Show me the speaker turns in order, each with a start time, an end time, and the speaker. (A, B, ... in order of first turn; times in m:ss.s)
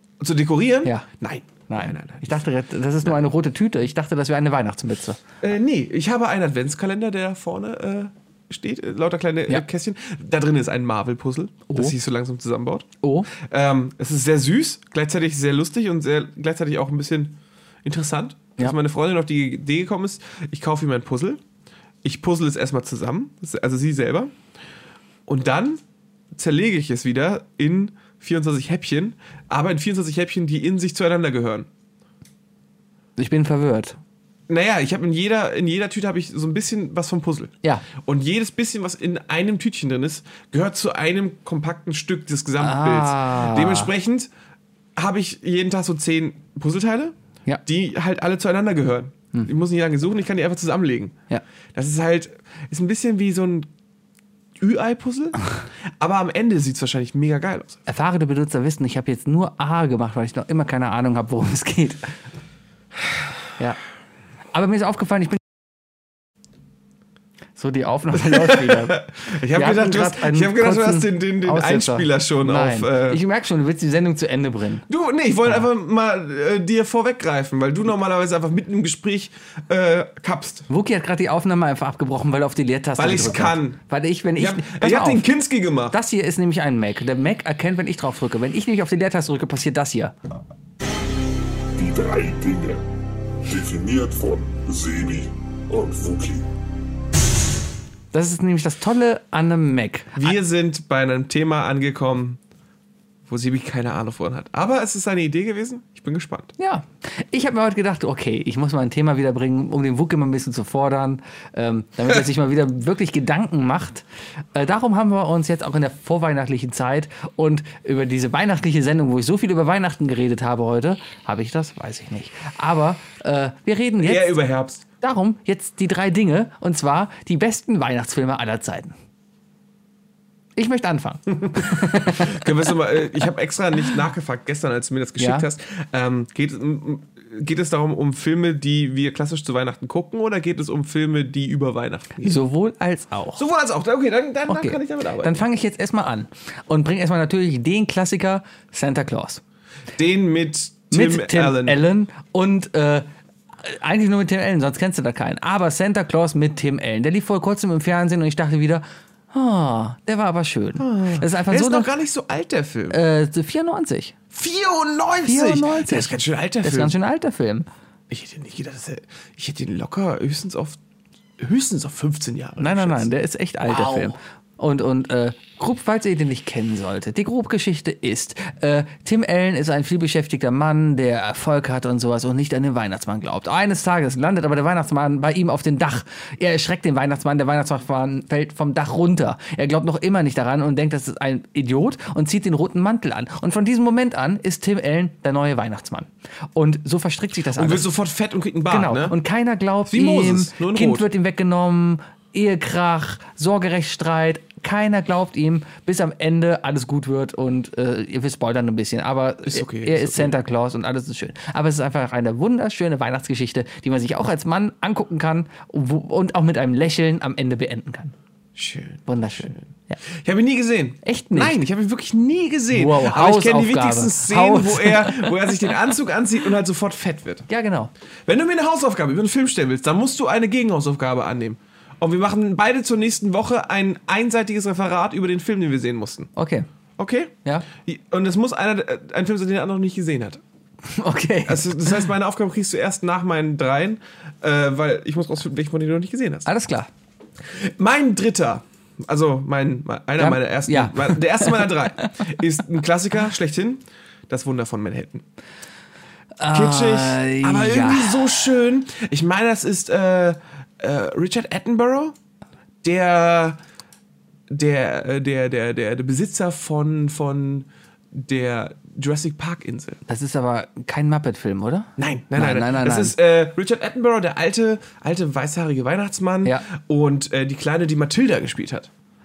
0:00.2-0:02.4 A
0:01.7-0:05.2 B
0:05.4-0:21.4 A
0:13.0-0:13.3 B
0:22.0-0:24.3 A
0:25.3-0:25.8 A
0:26.3-0:31.7 A
0:33.2-0:34.0 B
0:34.5-0:44.3 A
0:42.6-0:43.9 B
0:45.0-0:47.1 A
0:47.6-0:51.1 A
0:51.7-0:53.7 A
0:54.6-0:55.4 A
0:56.0-0:57.8 A
0:57.9-1:02.1 B
1:04.5-1:05.4 B
1:07.6-1:09.0 B
1:08.2-1:13.2 A
1:09.5-1:14.8 B
1:14.9-1:20.7 A
1:20.7-1:25.2 B
1:23.0-1:23.8 A
1:24.4-1:26.0 A
1:25.9-1:30.1 B
1:31.8-1:32.8 C
1:33.4-1:36.5 C
1:38.1-1:40.3 B
1:40.2-1:42.4 A
1:43.3-1:46.5 A
1:46.6-2:04.4 B
2:04.0-2:04.8 A
2:05.0-2:08.9 B
2:10.6-2:12.5 B
2:11.4-2:22.4 A
2:15.2-2:15.4 B
2:22.2-2:23.4 B
2:23.4-2:25.4 A
2:24.5-2:29.4 B
2:30.0-2:31.8 A
2:30.9-2:33.1 B
2:33.6-2:41.9 B
2:40.8-2:43.0 A
2:42.9-2:44.1 B
2:44.3-2:46.9 A
2:45.2-2:47.7 B
2:48.1-2:50.8 A
2:51.4-2:53.0 A
2:52.6-3:17.8 B
2:53.6-2:54.2 A
3:17.5-3:19.2 A
3:18.7-3:38.1 B
3:19.9-3:21.1 A
3:29.4-3:30.3 A
3:38.6-3:39.6 A
3:39.1-3:40.0 B
3:40.1-3:47.5 A
3:41.0-3:41.6 B
3:42.7-3:45.7 B
3:47.5-3:47.9 B
3:48.3-3:56.3 A
3:56.4-3:56.7 B
3:57.0-4:00.4 A
4:00.9-4:02.0 B
4:01.4-4:06.5 A
4:06.4-4:06.9 B
4:07.5-4:15.2 A
4:10.2-4:12.3 B
4:16.4-4:18.5 B
4:16.5-4:22.1 A
4:22.8-4:23.6 A
4:24.5-4:30.0 A
4:30.1-4:33.1 B
4:32.0-4:38.9 A